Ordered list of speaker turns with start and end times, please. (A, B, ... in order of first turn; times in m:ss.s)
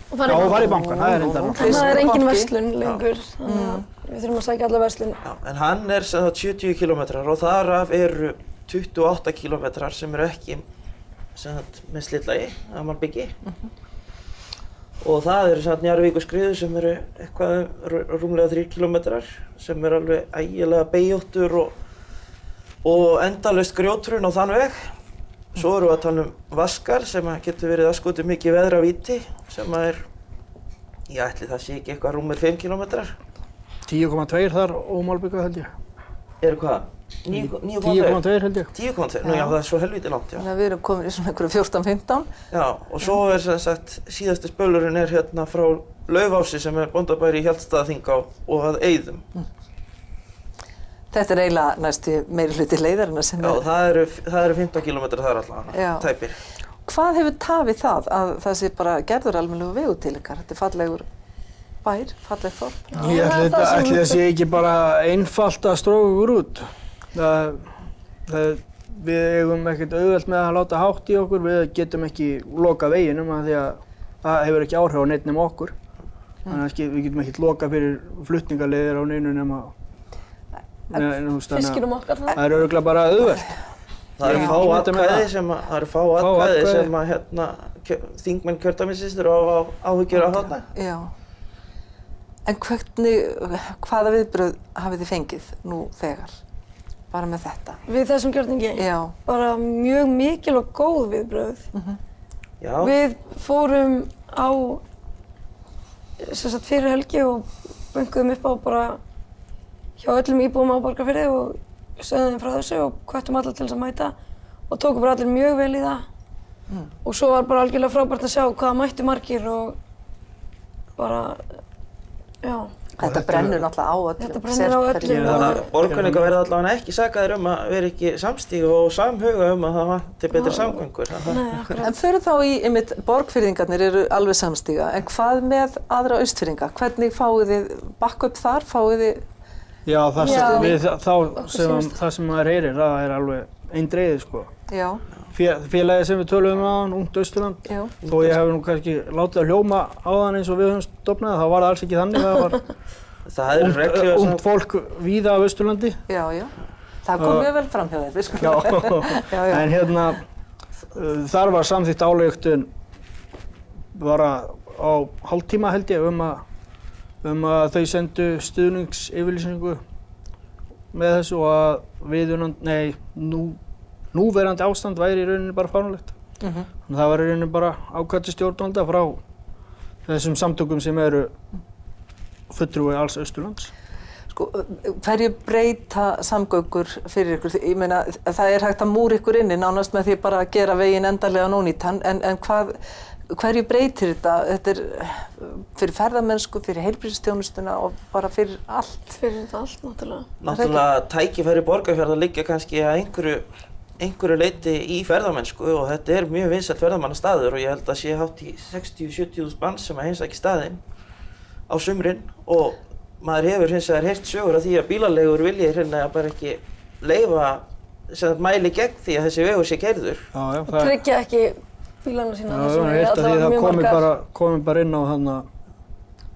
0:00.1-0:00.8 A
0:00.2-0:01.9 B
0:00.3-0:02.5 C
0:01.6-0:05.2 A
0:03.4-0:03.8 C
0:05.2-0:10.6 D
0:11.3-0:13.3 D
0:15.0-0:21.7 D
0:22.8-0:24.9 D
0:25.5-0:30.0 D
0:31.1-0:33.2 D
0:33.8-0:35.7 B
0:36.4-0:40.4 D
0:37.3-0:38.7 B
0:39.2-0:39.6 C
0:40.4-0:42.3 C
0:42.5-0:49.2 D
0:51.1-0:53.6 C
0:53.4-0:56.4 D
0:55.7-0:56.1 C
0:56.8-1:01.1 C
1:01.8-1:03.3 C
1:02.9-1:04.2 A
1:02.9-1:07.8 B
1:08.3-1:15.7 B
1:16.5-1:19.7 B
1:20.9-1:23.6 B
1:21.5-1:22.4 A
1:24.2-1:30.6 D
1:24.2-1:25.3 B
1:24.3-1:24.6 C
1:26.2-1:26.9 B
1:30.2-1:31.1 C
1:32.4-1:36.4 C
1:37.1-1:37.8 C
1:37.9-1:41.7 A
1:38.8-1:39.1 C
1:42.6-1:43.0 D
1:42.8-1:44.8 A
1:46.2-1:49.0 A
1:50.0-1:54.1 A
1:54.7-1:56.0 A
1:57.0-1:59.8 A
2:01.0-2:01.4 A
2:02.4-2:02.7 A
2:03.0-2:05.5 C
2:03.0-2:03.6 B
2:04.2-2:05.6 A
2:05.0-2:06.3 B
2:05.2-2:11.8 D
2:10.3-2:11.9 A
2:11.8-2:19.2 C
2:19.8-2:24.5 B
2:20.2-2:20.8 C
2:20.2-2:20.8 A
2:21.4-2:22.0 A
2:24.7-2:25.0 C
2:25.3-2:32.6 B
2:27.6-2:27.9 C
2:28.0-2:28.3 D
2:33.2-2:34.4 D
2:33.5-2:36.0 B
2:36.1-2:39.7 C
2:37.2-2:37.5 B
2:38.4-2:40.2 B
2:40.9-2:42.7 B
2:43.9-2:46.4 B
2:47.2-2:49.8 B
2:50.9-2:53.6 B
2:54.1-2:56.1 B
2:56.4-2:56.7 C
2:56.8-2:59.2 B
3:00.0-3:01.3 B
3:02.5-3:03.7 B
3:04.3-3:19.2 C
3:19.1-3:20.3 A
3:20.4-3:23.4 D
3:20.5-3:20.8 C
3:24.0-3:30.8 D
3:31.7-3:40.3 D
3:40.3-3:41.0 B
3:40.7-3:44.0 A
3:42.5-3:45.5 B